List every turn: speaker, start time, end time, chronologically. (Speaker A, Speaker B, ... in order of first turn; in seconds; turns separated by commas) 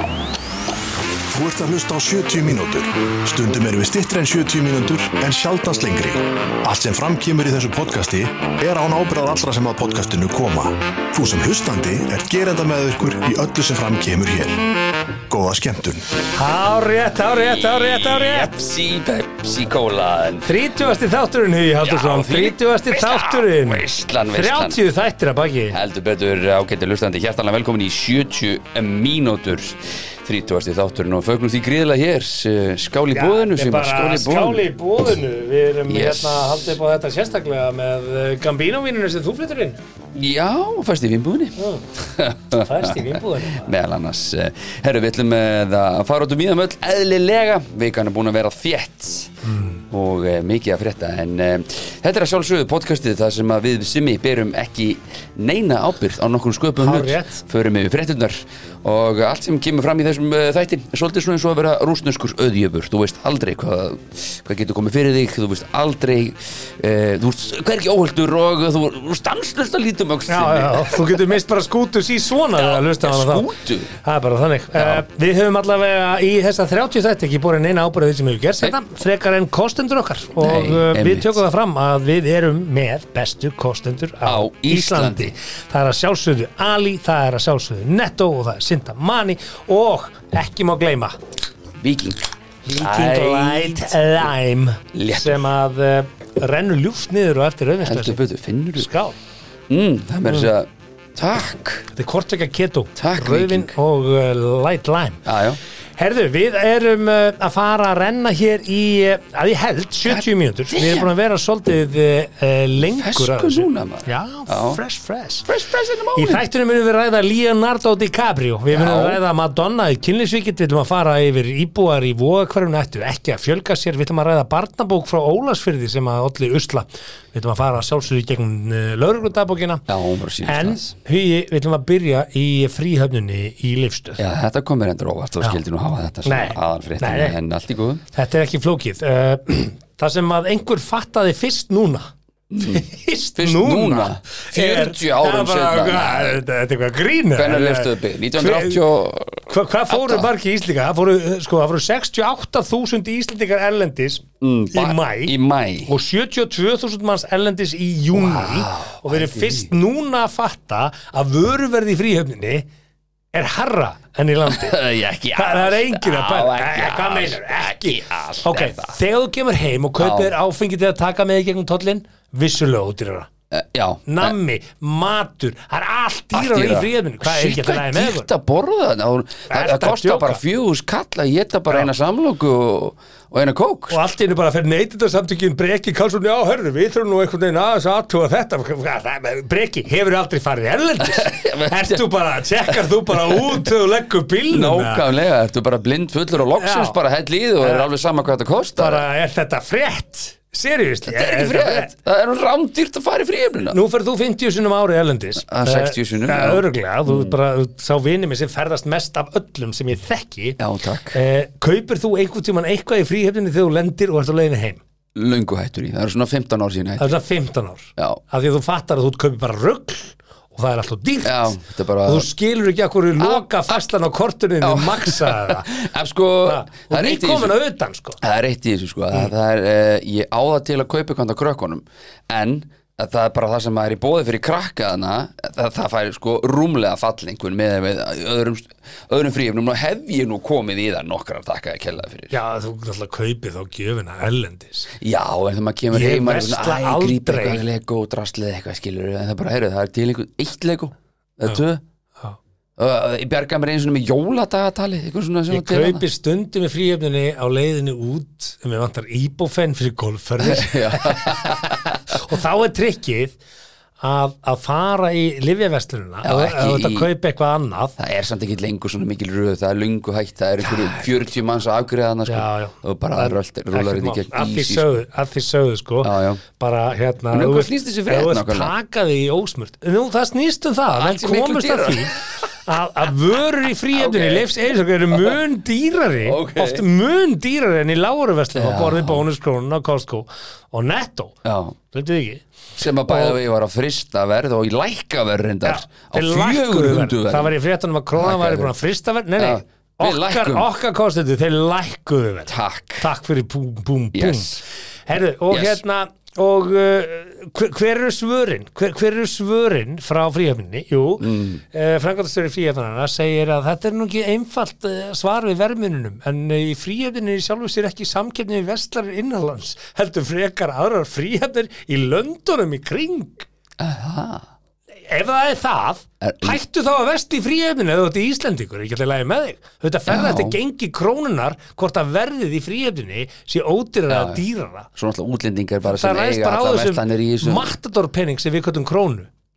Speaker A: 1.3-14.6, Speaker A: 15.3-16.1, Speaker B: 16.4-18.5, Speaker C: 17.4-20.5, Speaker B: 20.4-25.8, Speaker C: 21.8-24.8, Speaker C: 25.7-34.6, Speaker B: 33.1-39.8, Speaker C: 35.9-36.7, Speaker C: 40.1-49.3, Speaker B: 41.6-41.8, Speaker B: 42.6-43.7, Speaker B: 49.5-49.8, Speaker C: 49.9-71.4, Speaker B: 56.8-57.4, Speaker B: 70.3-73.5, Speaker C: 72.5-73.9, Speaker B: 74.0-91.2, Speaker C: 74.8-75.0, Speaker C: 80.4-81.4, Speaker C: 84.2-85.3, Speaker C: 91.8-94.1, Speaker B: 92.6-98.2, Speaker C: 94.9-95.5, Speaker C: 97.8-98.9, Speaker B: 98.8-99.2, Speaker C: 99.7-101.9, Speaker B: 101.9-105.2, Speaker C: 103.0-103.7, Speaker C: 105.2-105.6, Speaker B: 106.0-115.5, Speaker C: 110.0-111.1, Speaker C: 112.8-114.8, Speaker C: 115.5-116.4, Speaker B: 116.1-129.9, Speaker C: 118.7-119.2, Speaker C: 129.9-130.9, Speaker B: 130.4-134.2, Speaker C: 134.2-138.1, Speaker B: 136.2-137.4, Speaker B: 138.1-142.1, Speaker C: 142.5-142.8, Speaker B: 142.6-148.8, Speaker C: 143.4-146.4, Speaker C: 147.3-150.3, Speaker B: 149.5-155.3, Speaker C: 154.4-155.9, Speaker B: 155.9-162.7, Speaker C: 158.1-159.7, Speaker B: 163.3-164.8, Speaker C: 164.5-169.0, Speaker B: 165.3-173.3, Speaker C: 170.0-170.3, Speaker C: 173.5-174.3, Speaker B: 174.1-178.3, Speaker C: 176.3-184.0, Speaker B: 179.5-180.4, Speaker B: 183.9-195.1, Speaker C: 191.0-192.1, Speaker C: 192.7-193.7, Speaker C: 194.5-199.0, Speaker B: 196.6-196.9, Speaker B: 197.6-197.9, Speaker B: 198.8-201.9, Speaker C: 201.1-203.8, Speaker B: 203.7-210.6, Speaker C: 205.4-207.4, Speaker C: 210.6-211.2, Speaker B: 211.1-214.8, Speaker C: 215.1-217.1, Speaker B: 217.0-225.7, Speaker C: 221.2-222.3, Speaker C: 223.2-223.8, Speaker C: 224.6-227.6, Speaker B: 226.4-228.2, Speaker C: 228.2-242.3, Speaker B: 242.3-244.9, Speaker C: 244.9-251.8, Speaker B: 245.9-247.6, Speaker C: 252.8-256.0, Speaker B: 255.5-263.4, Speaker C: 260.4-262.0, Speaker B: 264.0-267.9, Speaker C: 266.2-267.1, Speaker C: 268.0-275.0, Speaker B: 270.6-271.0, Speaker B: 272.3-293.4, Speaker C: 276.0-276.4, Speaker C: 277.3-278.7, Speaker C: 280.9-282.2, Speaker C: 283.9-284.5, Speaker C: 285.1-285.4, Speaker C: 286.2-286.8, Speaker C: 288.5-289.2, Speaker C: 291.4-291.8, Speaker C: 292.8-297.5, Speaker B: 295.6-323.5, Speaker C: 298.1-298.7, Speaker C: 299.4-300.7, Speaker C: 302.5-303.1, Speaker C: 304.1-304.6, Speaker C: 305.5-305.8, Speaker C: 311.2-311.6, Speaker C: 323.8-324.5, Speaker B: 325.0-334.9, Speaker C: 326.2-326.6, Speaker C: 330.1-330.6, Speaker C: 334.1-334.4, Speaker C: 334.9-337.7, Speaker B: 335.9-339.3